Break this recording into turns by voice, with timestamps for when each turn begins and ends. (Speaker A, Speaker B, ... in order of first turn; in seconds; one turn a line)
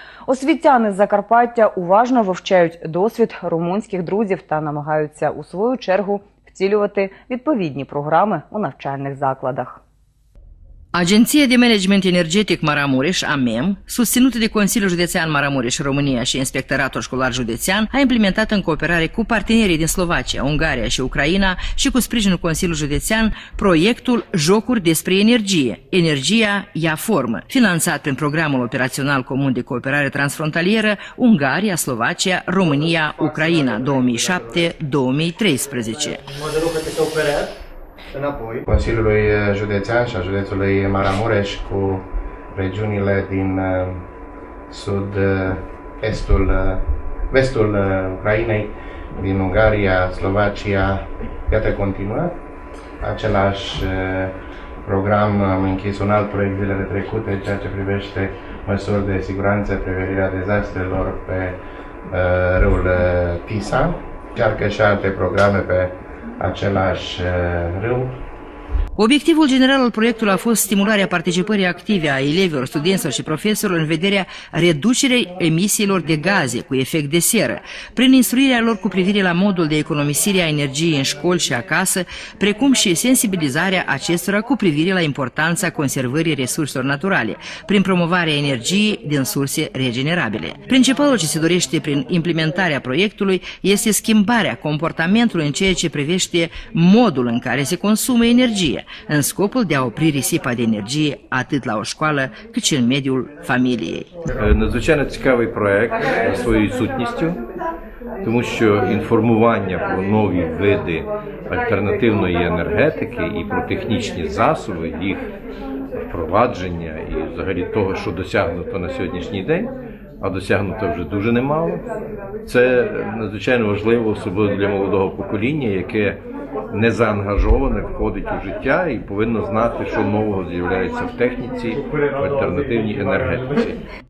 Speaker A: 0.3-9.8
Speaker B: 10.9-36.2
Speaker C: 33.2-34.5
Speaker C: 36.3-37.5
Speaker C: 38.1-38.6
Speaker D: 38.7-44.0
Speaker D: 44.7-52.4
Speaker D: 53.0-54.3
Speaker D: 54.9-68.1
Speaker B: 69.0-104.1
Speaker E: 104.3-107.4
Speaker E: 108.2-115.3
Speaker E: 116.1-121.8
Speaker E: 122.5-126.2
Speaker E: 126.7-133.8
Speaker C: 132.0-132.5